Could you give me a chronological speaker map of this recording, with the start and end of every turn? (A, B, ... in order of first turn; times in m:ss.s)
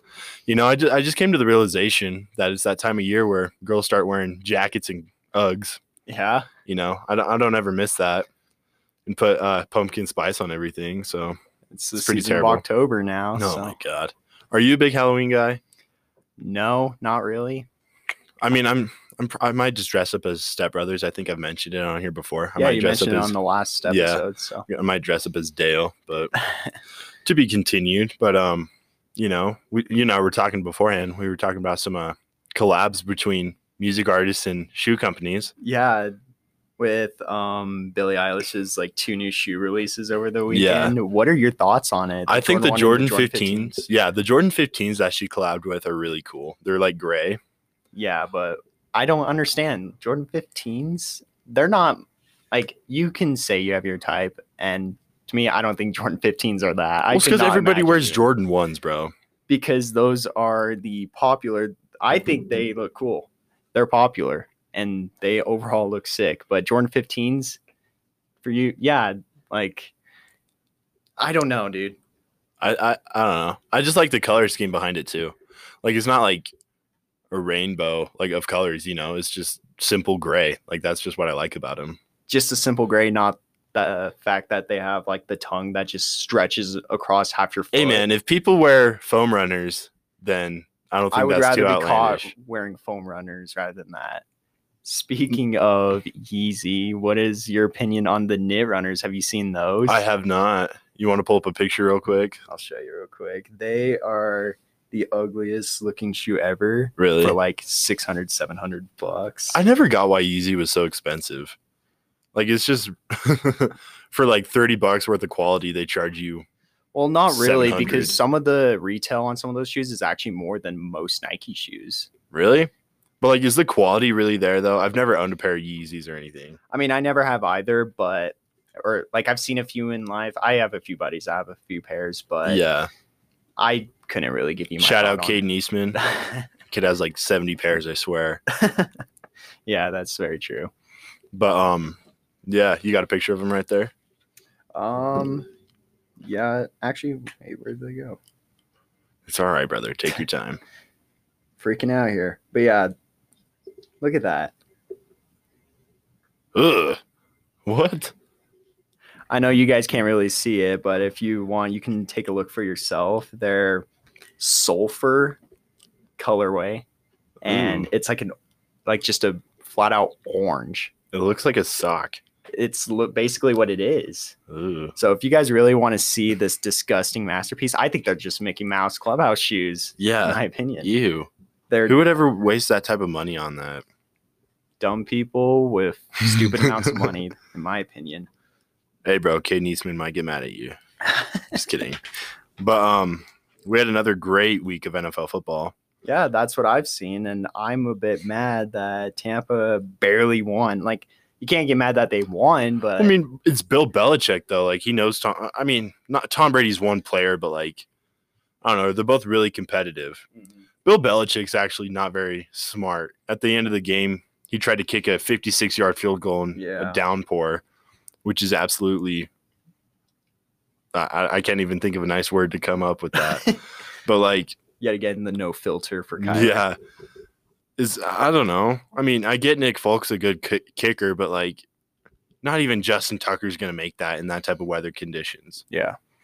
0:00.5-0:05.8 A
0:06.1-0:06.5 B
0:06.7-0:08.3 A
0:09.0-0:11.4 A
0:11.7-0:13.8 B
0:12.0-0:12.6 A
0:13.3-0:15.6 A
0:16.4-0:17.7 B
0:18.4-0:23.4 A
0:22.6-0:24.6 B
0:23.9-0:26.3 A
0:27.2-0:35.5 A
0:35.6-0:36.1 B
0:36.8-0:43.8 B
0:40.5-0:41.0 A
0:42.3-0:47.4 A
0:47.9-0:58.2 B
0:57.1-0:59.1 A
0:59.5-1:07.6 B
1:08.4-1:09.9 B
1:11.2-1:12.0 B
1:12.6-1:16.5 A
1:17.3-1:22.0 A
1:22.3-1:28.1 B
1:27.7-1:32.3 A
1:31.1-1:34.2 B
1:34.8-1:40.0 B
1:39.9-1:42.4 A
1:42.5-1:49.6 B
1:47.0-1:47.4 A
1:49.5-1:51.6 A
1:52.3-1:56.5 A
1:56.9-2:02.1 B
1:57.3-1:58.2 A
2:02.3-2:02.7 A
2:03.2-2:06.6 A
2:06.7-2:12.6 B
2:12.4-2:12.9 A
2:13.6-2:16.5 B
2:14.8-2:16.0 A
2:16.7-2:18.4 A
2:18.5-2:19.0 B
2:19.7-2:20.7 B
2:21.3-2:23.9 A
2:24.7-2:25.5 B
2:26.2-2:28.2 B
2:29.3-2:30.6 A
2:31.6-2:32.9 B
2:34.0-2:34.5 B
2:36.6-2:37.0 A
2:37.7-2:38.1 A
2:39.3-2:43.8 B
2:44.4-2:45.4 B
2:46.2-2:46.8 B
2:47.4-2:48.3 B
2:47.4-2:47.9 A
2:48.8-2:50.9 B
2:51.1-2:52.2 A
2:52.6-2:54.4 B
2:54.5-2:54.9 A
2:55.0-3:00.9 B
3:00.0-3:01.3 A
3:01.7-3:02.1 B
3:01.9-3:03.8 A
3:04.8-3:08.3 B
3:06.2-3:07.1 A
3:09.0-3:10.8 A
3:11.1-3:11.4 B
3:11.5-3:12.0 A
3:12.6-3:15.7 A
3:16.0-3:23.2 B
3:23.0-3:27.8 A
3:28.6-3:30.2 A
3:30.8-3:37.6 A
3:36.6-3:37.0 B
3:38.2-3:39.3 A
3:40.9-3:44.6 A
3:43.2-3:43.6 B
3:44.8-3:46.6 B
3:46.2-3:46.8 A
3:47.8-3:51.6 A
3:52.4-3:55.6 A
3:55.7-3:56.0 B